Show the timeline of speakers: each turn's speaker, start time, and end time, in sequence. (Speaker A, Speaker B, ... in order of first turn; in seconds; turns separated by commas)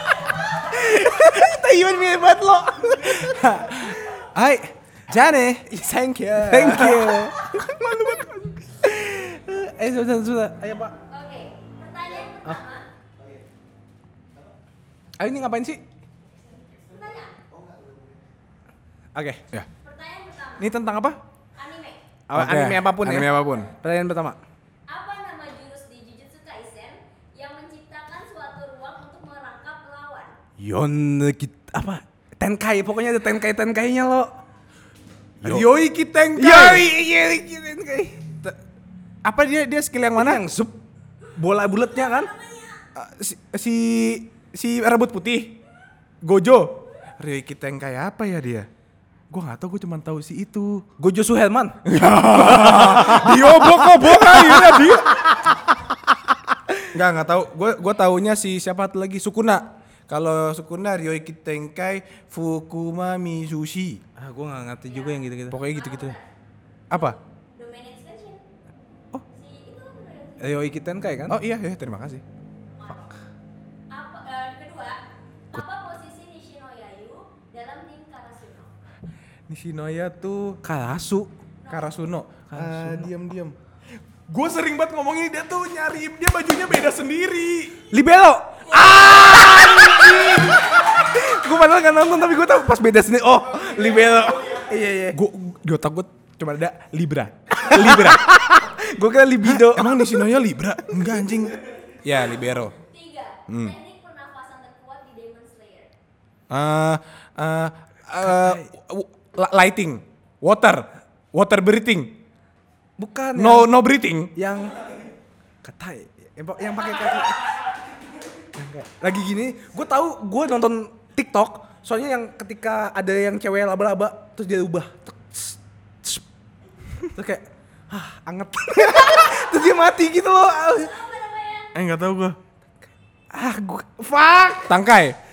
Speaker A: 0.5-4.0, Speaker B: 3.5-8.1, Speaker A: 5.7-10.9, Speaker C: 11.1-12.9, Speaker A: 15.2-15.8, Speaker C: 16.7-17.4, Speaker A: 19.1-19.4, Speaker C: 19.8-20.7, Speaker B: 20.6-21.2, Speaker C: 21.6-22.0, Speaker A: 22.3-24.4, Speaker B: 22.3-23.7, Speaker C: 24.9-30.4, Speaker A: 30.6-34.3, Speaker A: 35.4-35.7, Speaker B: 35.4-36.9, Speaker A: 36.4-38.5, Speaker B: 39.2-40.4, Speaker A: 40.1-40.8, Speaker A: 41.3-42.3, Speaker C: 42.4-42.7, Speaker B: 42.9-45.6, Speaker B: 46.2-48.7, Speaker B: 49.3-50.9, Speaker A: 51.0-51.8, Speaker B: 51.8-55.4, Speaker A: 52.4-55.0, Speaker B: 56.9-64.0, Speaker A: 64.2-65.6, Speaker C: 64.9-66.3, Speaker B: 65.5-66.2, Speaker B: 66.9-67.2, Speaker C: 66.9-68.4, Speaker C: 69.3-70.6, Speaker A: 70.4-71.4, Speaker B: 71.3-72.2, Speaker C: 72.8-73.2, Speaker C: 73.9-75.0, Speaker C: 75.5-78.7, Speaker B: 79.5-80.6, Speaker A: 80.6-81.3, Speaker C: 81.6-81.9, Speaker B: 81.7-83.5, Speaker A: 82.5-83.1, Speaker B: 84.3-87.8, Speaker A: 87.9-95.2, Speaker B: 88.7-90.6, Speaker B: 95.1-98.3, Speaker A: 97.5-100.2, Speaker B: 99.4-102.8, Speaker C: 102.8-105.9, Speaker B: 103.5-103.8, Speaker B: 106.5-112.2, Speaker A: 108.2-108.7, Speaker A: 113.0-113.7, Speaker B: 113.3-114.3, Speaker A: 114.3-114.8, Speaker A: 115.6-117.4, Speaker A: 118.5-126.2, Speaker A: 127.0-131.0, Speaker C: 130.7-131.7, Speaker B: 131.7-132.4, Speaker A: 133.3-134.7, Speaker B: 134.6-135.2